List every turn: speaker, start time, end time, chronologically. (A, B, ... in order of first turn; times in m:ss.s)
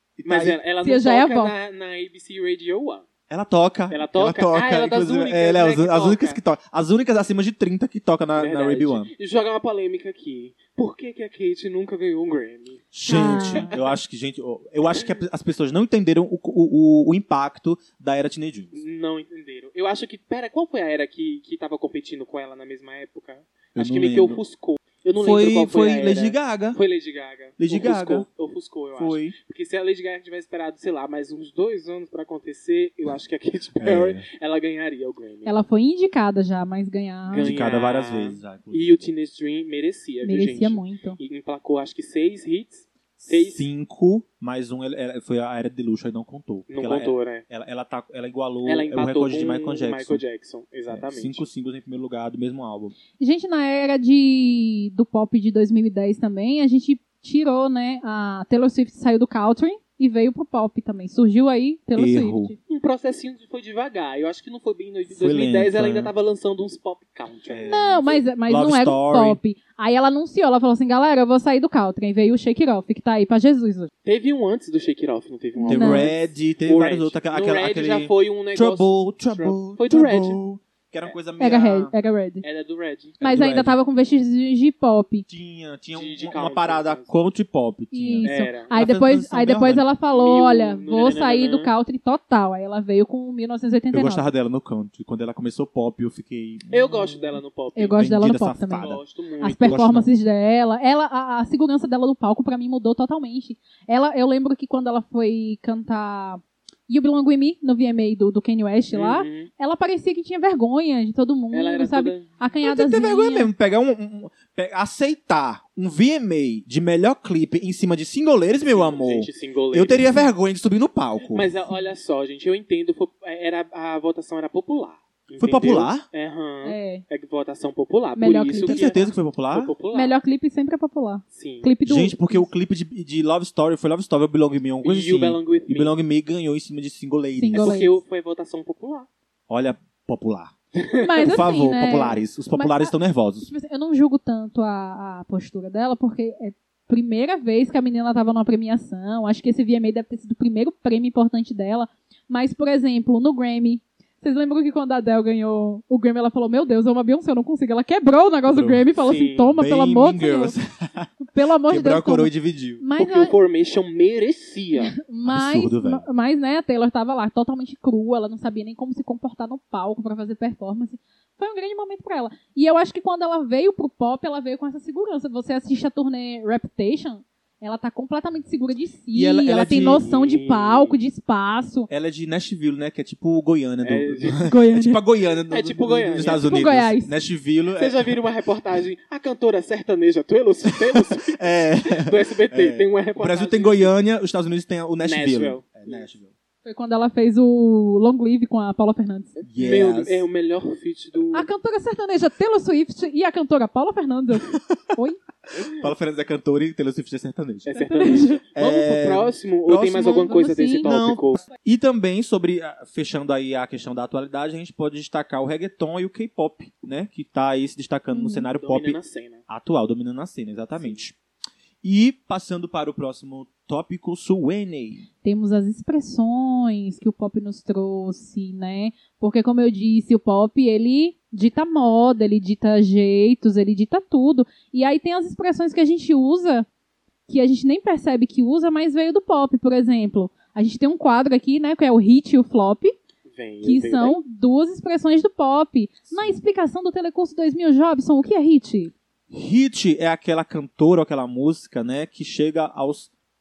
0:00.2-0:00.6 A
0:00.2-0:03.0 B
0:00.8-0:01.5 C
0:03.3-0:09.1 A
0:03.9-0:06.4 B
0:08.4-0:14.0 B
0:12.9-0:18.8 A
0:13.0-0:13.7 C
0:18.7-0:35.6 B
0:23.8-0:24.4 A
0:25.2-0:26.8 A
0:27.6-0:28.2 A
0:29.0-0:29.4 A
0:33.8-0:34.2 A
0:35.4-0:37.5 C
0:37.3-0:43.6 B
0:37.3-0:39.0 A
0:40.2-0:41.2 C
0:43.2-0:50.2 A
0:46.7-0:47.4 B
0:48.6-0:51.4 B
0:50.9-0:52.9 A
0:53.2-1:02.6 C
1:02.0-1:02.5 A
1:02.7-1:08.2 B
1:05.1-1:06.1 A
1:07.5-1:09.4 A
1:07.6-1:13.9 C
1:14.0-1:20.4 B
1:15.6-1:16.1 C
1:15.7-1:21.9 A
1:21.4-1:22.4 C
1:22.4-1:23.2 B
1:23.2-1:23.7 A
1:23.2-1:25.2 C
1:25.3-1:29.9 A
1:25.9-1:27.1 B
1:27.9-1:34.2 C
1:28.2-1:28.7 B
1:30.1-1:31.7 B
1:33.9-1:37.4 A
1:36.7-1:38.0 B
1:37.8-1:38.9 C
1:38.0-1:40.1 A
1:38.8-1:39.8 B
1:39.4-1:53.5 C
1:48.9-1:49.5 B
1:51.5-1:52.3 B
1:52.6-2:01.5 A
1:58.7-2:00.1 B
2:01.3-2:10.2 B
2:05.4-2:06.0 A
2:06.6-2:07.0 C
2:08.2-2:09.0 C
2:08.6-2:09.7 A
2:09.9-2:12.4 C
2:11.3-2:11.7 B
2:11.8-2:17.8 A
2:14.8-2:15.9 B
2:17.4-2:18.0 C
2:17.5-2:19.1 B
2:19.5-2:20.5 A
2:20.8-2:21.1 B
2:21.0-2:40.6 C
2:21.2-2:23.5 A
2:38.5-2:38.8 A
2:39.0-2:39.5 B
2:39.6-2:41.1 A
2:41.2-2:43.3 C
2:41.6-2:42.8 A
2:43.0-2:44.9 B
2:44.9-3:01.9 C
2:45.2-2:46.0 A
2:59.1-3:00.0 A
2:59.7-3:01.0 B
3:01.9-3:08.1 A
3:03.8-3:04.4 B
3:04.4-3:05.0 C
3:05.5-3:06.7 B
3:06.2-3:07.1 C
3:07.7-3:13.9 B
3:10.7-3:16.3 A
3:15.0-3:16.1 B
3:16.6-3:19.3 C
3:19.4-3:21.5 B
3:19.4-3:20.2 A
3:21.3-3:25.2 C
3:24.5-3:24.8 A
3:25.5-3:27.7 A
3:25.6-3:25.9 B
3:27.6-3:31.4 B
3:27.7-3:28.4 C
3:28.5-3:41.1 A
3:30.2-3:30.9 C
3:38.1-3:38.5 C
3:38.5-3:39.4 B
3:41.8-3:45.0 A
3:45.2-3:56.6 C
3:57.3-4:02.9 C
4:03.3-4:04.2 B
4:03.6-4:08.9 C
4:06.1-4:06.4 A
4:09.3-4:13.1 A